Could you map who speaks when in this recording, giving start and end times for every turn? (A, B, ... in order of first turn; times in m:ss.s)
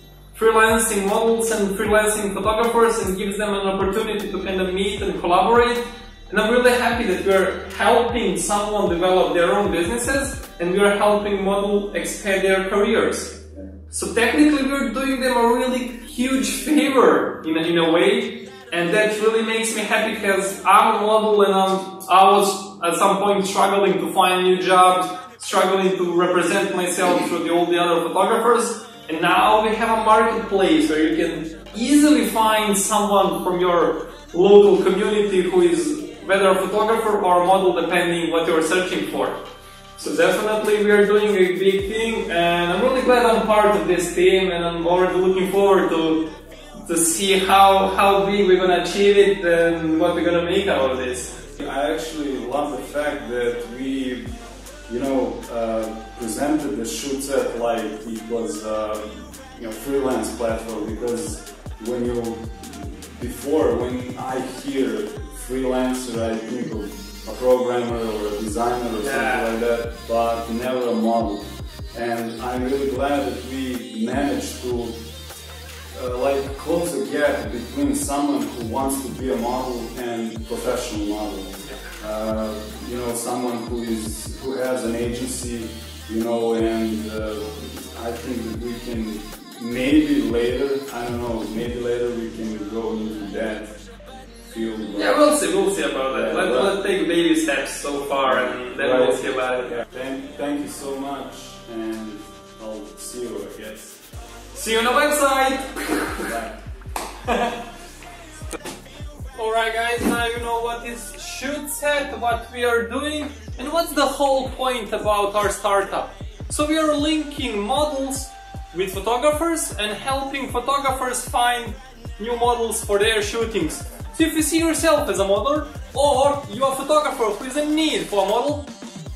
0:00.3-0:13.4 A
0:13.9-0:39.4 A
0:40.0-0:46.3 A
0:46.9-0:51.4 A
0:51.6-0:54.3 B
0:54.9-1:15.0 B
1:09.0-1:09.5 A
1:15.9-1:33.7 B
1:34.5-1:35.2 B
1:35.0-1:39.8 A
1:36.1-1:36.8 B
1:38.2-1:44.0 B
1:44.5-1:46.3 A
1:46.2-1:46.6 B
1:47.2-1:47.6 A
1:49.4-2:08.7 A